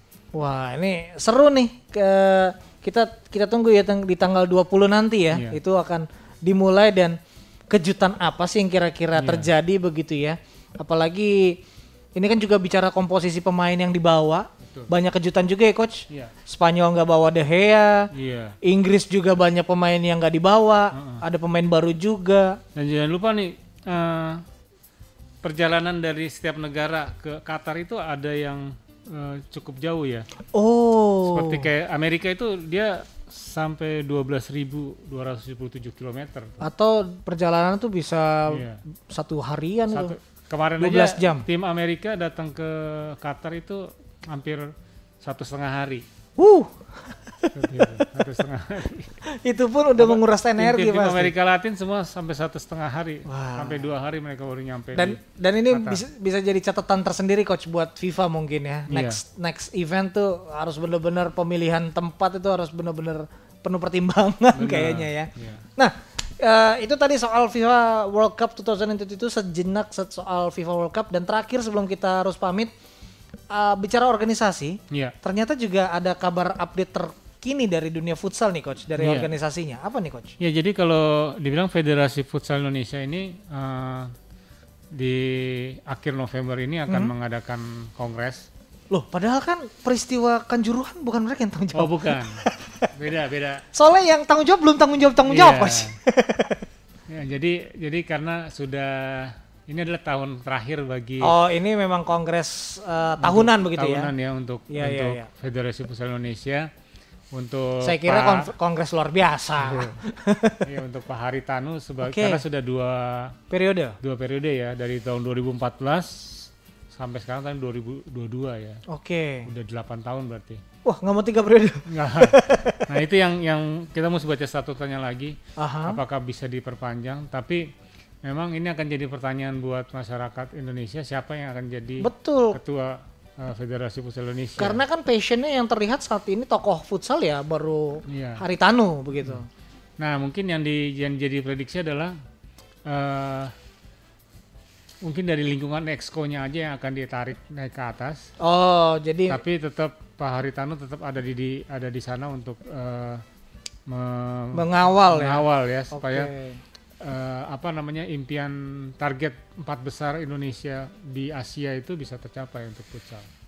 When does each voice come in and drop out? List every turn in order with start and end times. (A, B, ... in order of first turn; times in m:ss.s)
0:00.3-0:07.2 A
0:05.3-0:05.6 B
0:07.7-0:11.6 A
0:09.2-0:09.5 B
0:12.2-0:18.1 A
0:14.6-0:14.9 B
0:18.1-0:18.6 B
0:18.6-0:22.6 A
0:20.9-0:21.2 B
0:22.7-0:24.4 B
0:25.4-0:30.3 B
0:30.5-0:31.7 A
0:31.2-0:36.6 B
0:36.6-0:40.1 A
0:38.5-0:38.8 B
0:39.9-0:44.7 B
0:40.8-0:41.4 A
0:45.2-0:46.0 B
0:46.4-0:48.1 A
0:47.5-0:49.2 B
0:49.3-0:51.3 A
0:50.0-0:56.0 B
0:53.2-0:53.8 A
0:54.9-1:12.7 A
0:58.9-0:59.2 B
1:04.5-1:05.6 B
1:13.5-1:20.3 A
1:14.9-1:15.1 B
1:19.0-1:19.3 B
1:20.4-1:24.1 B
1:24.9-1:28.5 B
1:28.9-1:32.9 A
1:31.7-1:32.4 B
1:32.9-1:33.6 B
1:33.7-1:36.6 A
1:35.3-1:36.0 B
1:37.1-1:41.3 B
1:41.2-1:44.1 A
1:43.2-1:46.7 B
1:44.7-1:45.3 A
1:47.3-1:48.5 B
1:47.8-1:50.6 A
1:49.6-1:50.0 B
1:50.6-1:53.4 B
1:52.0-1:52.4 A
1:53.5-1:54.0 A
1:54.0-1:58.8 B
1:58.9-1:59.5 A
1:59.4-2:00.6 B
2:00.8-2:02.8 A
2:01.9-2:02.4 B
2:02.9-2:07.7 B
2:05.6-2:06.0 A
2:08.2-2:14.8 B
2:12.0-2:12.6 A
2:14.6-2:19.5 A
2:18.1-2:18.4 B
2:20.0-2:22.2 B
2:22.8-2:23.5 B
2:25.0-2:28.3 B
2:28.4-2:29.4 A
2:29.3-2:33.2 B
2:33.9-2:36.3 B
2:34.5-2:36.6 A
2:37.0-2:43.3 B